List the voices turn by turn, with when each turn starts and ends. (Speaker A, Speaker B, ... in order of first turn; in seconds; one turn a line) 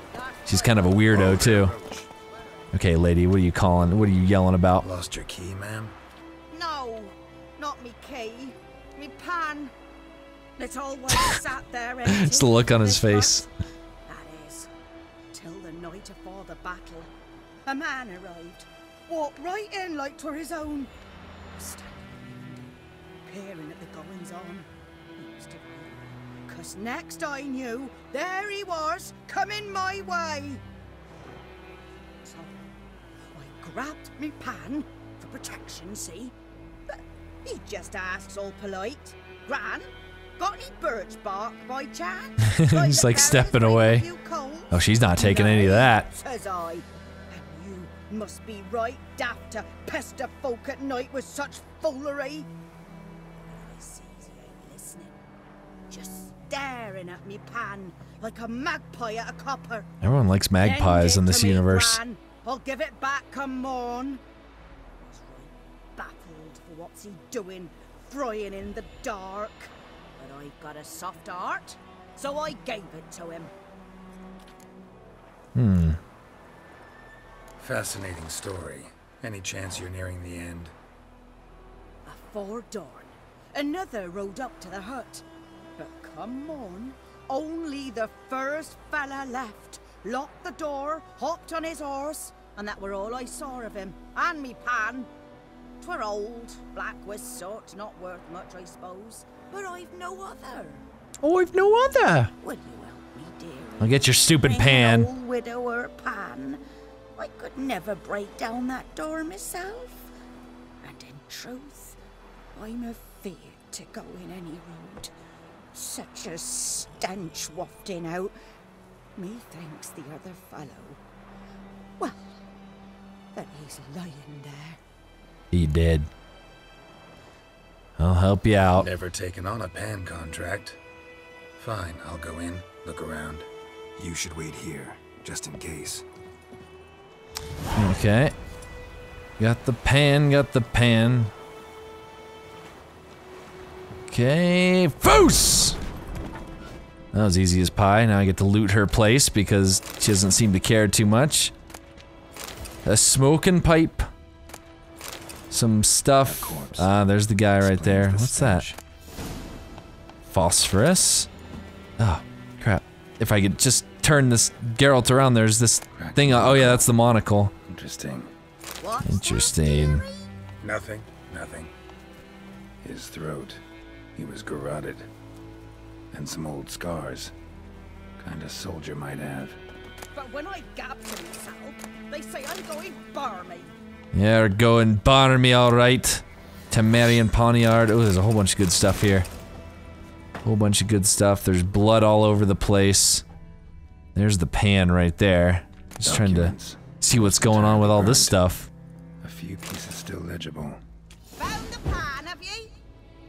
Speaker A: 0.1-1.0
Speaker B: 0.5-1.7
Speaker C: 1.1-2.1
Speaker A: 2.3-2.6
Speaker B: 2.7-4.8
Speaker C: 4.8-5.9
Speaker A: 6.5-9.7
Speaker A: 10.6-13.5
Speaker B: 12.1-13.4
Speaker A: 14.1-14.7
Speaker A: 15.3-17.1
Speaker A: 17.6-20.9
Speaker A: 21.5-30.6
Speaker A: 32.2-32.7
Speaker A: 33.3-36.3
Speaker A: 36.9-52.5
Speaker B: 42.4-44.0
Speaker B: 44.7-46.1
Speaker A: 53.5-55.2
Speaker A: 55.9-59.9
Speaker B: 60.0-62.0
Speaker A: 60.6-64.2
Speaker A: 65.0-73.5
Speaker B: 75.5-76.0
Speaker C: 77.6-80.7
Speaker A: 82.0-85.2
Speaker A: 85.8-95.1
Speaker A: 95.8-100.8
Speaker B: 101.2-102.3
Speaker A: 102.4-106.6
Speaker B: 103.8-105.1
Speaker A: 107.2-110.1
Speaker A: 110.8-112.0
Speaker A: 112.5-115.1
Speaker A: 115.7-118.3
Speaker A: 119.2-121.0
Speaker A: 123.3-124.8
Speaker B: 125.5-126.1
Speaker B: 128.0-128.9
Speaker C: 128.7-130.8
Speaker C: 131.6-136.1
Speaker B: 137.7-138.3
Speaker B: 139.4-141.3
Speaker B: 144.1-145.8
Speaker B: 147.1-151.5
Speaker B: 152.8-154.1
Speaker B: 155.5-158.7
Speaker C: 156.2-156.9
Speaker C: 157.6-158.8
Speaker B: 160.3-161.3
Speaker B: 162.0-167.5
Speaker C: 165.9-166.9
Speaker C: 167.7-168.3
Speaker A: 168.8-170.3
Speaker B: 169.0-170.0
Speaker C: 170.6-171.7
Speaker C: 172.8-173.6
Speaker C: 174.2-175.1
Speaker C: 176.1-177.3
Speaker C: 178.2-179.6
Speaker A: 180.1-183.7
Speaker B: 184.1-189.3
Speaker B: 190.4-193.2
Speaker B: 194.1-198.7
Speaker C: 196.0-198.4
Speaker C: 199.2-200.8
Speaker A: 201.4-202.7